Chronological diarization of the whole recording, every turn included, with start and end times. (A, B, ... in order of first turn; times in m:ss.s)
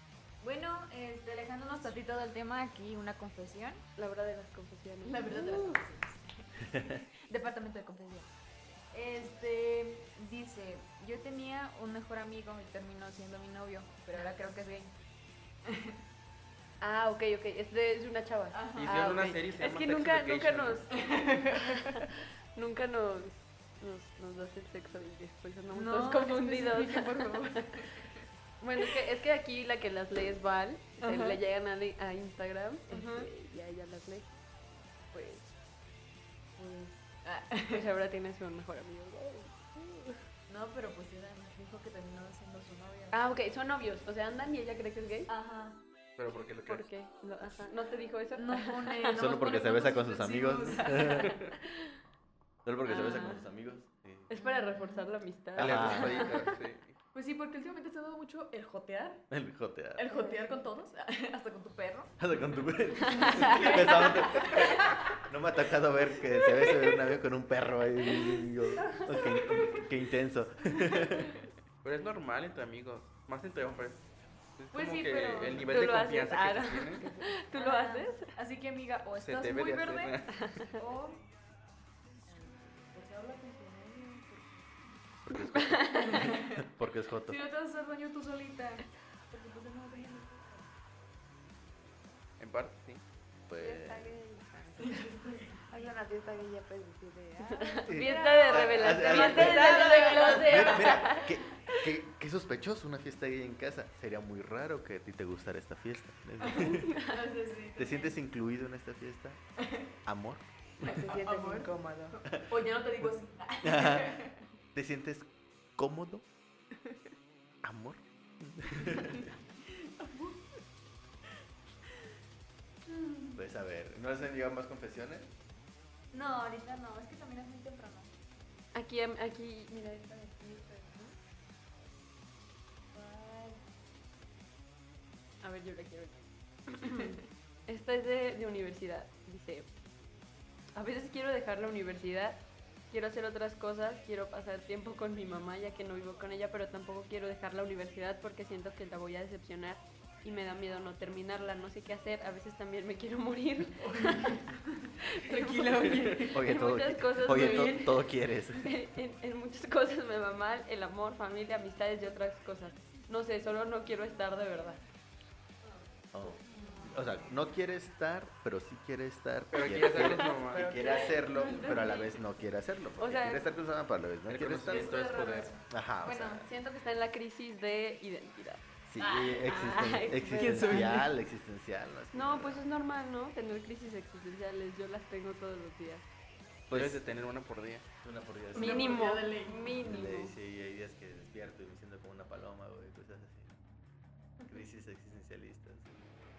0:00.4-0:03.8 A
0:04.0-0:05.8 B
0:05.0-0:06.7 C
0:07.2-0:08.3 A
0:08.9-0:14.9 A
0:15.7-0:16.0 C
0:16.8-0:27.8 B
0:18.5-0:19.0 C
0:18.8-0:20.9 D
0:20.9-0:21.9 C
0:25.7-0:28.2 C
0:28.6-0:34.3 B
0:31.0-0:31.4 C
0:32.9-0:33.3 C
0:35.1-0:35.5 B
0:36.6-0:37.0 B
0:37.2-0:37.8 C
0:37.7-0:40.2 B
0:40.5-0:43.2 C
0:43.1-0:45.3 B
0:45.3-0:45.8 C
0:46.2-0:46.8 D
0:46.6-0:49.1 B
0:48.4-0:51.4 C
0:49.1-0:51.3 E
0:52.6-0:54.3 E
0:52.8-0:53.4 B
0:54.3-0:56.5 B
0:54.4-0:55.1 C
0:55.6-0:56.3 E
0:55.6-0:57.0 D
0:57.1-0:59.3 C
0:59.3-1:00.1 E
1:00.0-1:02.2 C
1:02.2-1:11.4 E
1:03.0-1:05.2 C
1:03.1-1:04.1 B
1:09.2-1:09.8 C
1:11.8-1:14.0 D
1:14.6-1:17.1 D
1:14.8-1:15.7 C
1:14.9-1:15.5 A
1:15.6-1:18.3 B
1:17.6-1:18.1 A
1:18.4-1:20.1 C
1:19.0-1:20.1 A
1:19.2-1:20.4 D
1:20.4-1:20.8 B
1:20.8-1:21.1 A
1:20.8-1:21.1 C
1:22.3-1:24.8 C
1:25.2-1:27.4 E
1:25.5-1:26.2 B
1:26.1-1:26.6 C
1:27.3-1:28.8 C
1:29.3-1:30.7 C
1:32.4-1:33.0 D
1:33.5-1:34.2 E
1:33.6-1:38.1 F
1:34.8-1:35.6 C
1:37.5-1:41.8 B
1:37.9-1:47.0 E
1:38.5-1:41.4 C
1:46.4-1:48.1 C
1:46.6-1:47.2 B
1:47.8-1:49.4 E
1:49.6-1:49.9 C
1:50.0-1:50.9 E
1:50.8-1:52.2 F
1:50.8-1:54.5 C
1:53.6-1:54.2 E
1:54.7-1:56.2 E
1:57.6-1:59.3 E
1:59.7-2:00.5 C
2:02.9-2:03.2 C
2:03.3-2:05.3 E
2:06.1-2:08.1 A
2:08.7-2:11.1 B
2:13.2-2:13.6 C
2:15.4-2:19.7 B
2:20.7-2:34.4 B
2:33.8-2:36.5 C
2:35.1-2:44.8 B
2:36.3-2:38.7 E
2:37.2-2:37.9 C
2:46.1-2:55.0 E
2:46.5-2:46.9 B
2:49.5-2:50.8 D
2:50.5-2:52.2 B
2:51.4-2:51.9 C
2:53.0-2:53.5 B
2:54.3-2:55.6 D
2:54.7-2:55.6 C
2:55.7-2:56.5 E
2:56.0-2:56.4 A
2:56.4-2:58.6 B
2:58.8-3:02.6 E
2:59.2-3:01.0 B
3:00.3-3:01.1 C
3:02.1-3:06.0 B
3:06.7-3:07.0 E
3:06.7-3:07.8 D
3:08.0-3:09.0 E
3:08.5-3:09.8 C
3:08.6-3:10.3 B
3:09.8-3:13.6 E
3:14.4-3:16.1 E